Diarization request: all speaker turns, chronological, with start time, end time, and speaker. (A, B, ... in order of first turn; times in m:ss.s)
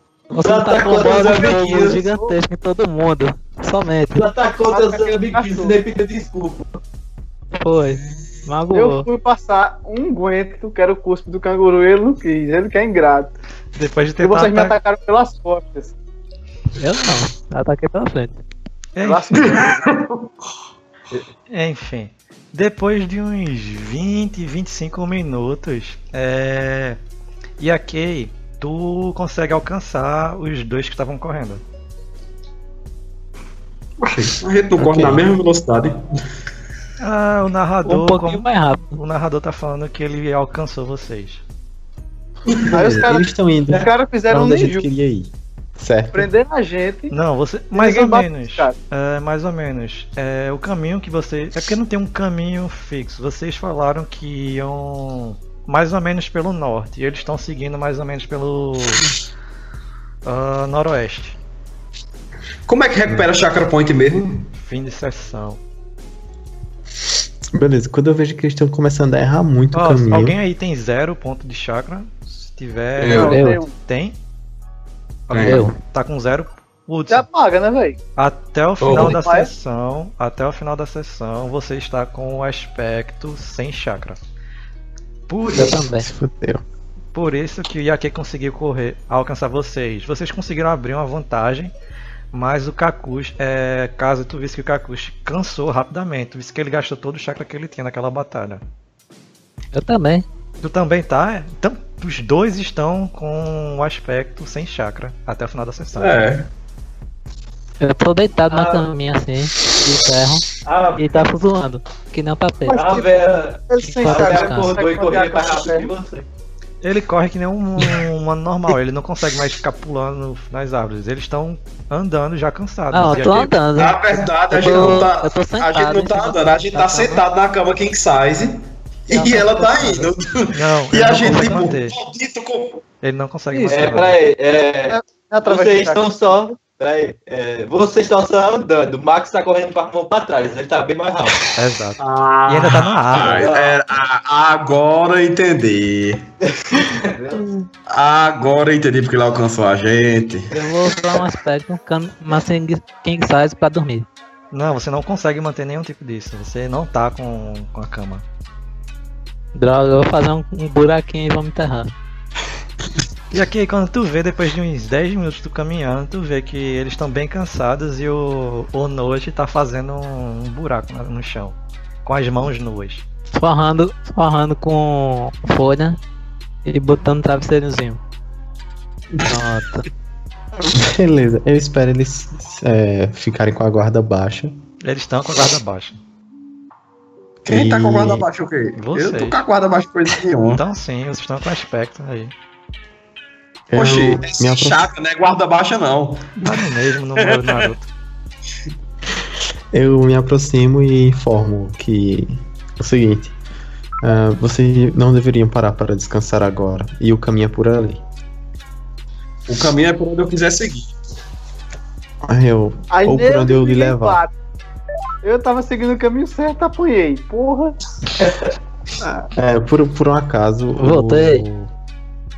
0:00.3-0:04.3 A
0:00.3-0:02.0 B
0:01.2-0:02.3 C
0:04.1-0:06.8 B
0:04.7-0:05.8 C
0:07.6-0:09.1 A
0:08.7-0:13.3 C
0:13.8-0:14.8 D
0:14.2-0:15.9 C
0:16.8-0:18.4 A
0:19.0-0:19.6 D
0:19.0-0:19.8 C
0:19.4-0:20.3 E
0:21.5-0:27.0 D
0:27.6-0:31.6 D
0:34.0-0:36.0 E
0:34.8-0:35.3 F
0:37.0-0:41.4 D
0:37.9-0:39.0 A
0:42.6-0:46.3 F
0:42.7-0:44.9 C
0:46.1-0:47.1 C
0:47.1-0:59.1 D
0:47.7-0:48.7 C
1:00.2-1:01.4 D
1:02.7-1:04.5 E
1:04.6-1:05.6 D
1:07.5-1:10.4 F
1:09.7-1:14.2 D
1:13.0-1:13.4 E
1:13.0-1:13.7 C
1:13.2-1:13.6 A
1:15.3-1:17.3 D
1:15.3-1:15.7 E
1:15.4-1:15.8 A
1:17.1-1:18.0 C
1:18.2-1:24.2 D
1:18.8-1:19.2 E
1:18.9-1:19.5 C
1:25.3-1:25.8 D
1:25.5-1:26.1 A
1:25.6-1:26.6 F
1:27.1-1:31.7 D
1:32.3-1:38.6 D
1:39.7-1:40.2 A
1:40.6-1:46.1 D
1:46.0-1:46.5 E
1:47.8-1:50.5 A
1:48.5-1:48.9 B
1:50.6-1:51.2 B
1:51.0-1:53.0 A
1:52.7-1:53.2 C
1:52.7-1:56.3 B
1:53.7-1:55.9 C
1:53.8-1:54.8 A
1:56.8-2:03.6 D
2:02.9-2:07.2 A
2:03.8-2:12.8 E
2:09.1-2:10.1 A
2:10.5-2:12.0 D
2:13.0-2:14.2 D
2:13.7-2:21.4 B
2:14.9-2:16.1 C
2:21.6-2:23.5 D
2:22.0-2:26.3 E
2:23.2-2:23.8 B
2:26.4-2:27.4 B
2:27.9-2:30.5 E
2:30.5-2:34.1 A
2:34.5-2:38.2 D
2:39.6-2:41.9 A
2:43.3-2:53.0 D
2:53.3-2:56.0 A
2:56.7-2:58.0 A
2:59.2-2:59.9 A
3:00.7-3:04.6 F
3:04.8-3:06.0 D
3:07.4-3:08.3 F
3:07.5-3:10.6 E
3:08.8-3:09.4 D
3:10.5-3:12.3 D
3:13.7-3:14.9 F
3:13.8-3:16.5 E
3:16.4-3:17.9 D
3:19.7-3:23.4 F
3:24.0-3:28.0 F
3:29.5-3:31.0 E
3:32.2-3:34.2 F
3:32.9-3:34.3 C
3:35.2-3:37.8 C
3:38.2-3:38.5 B
3:39.0-3:41.7 F
3:40.8-3:41.4 A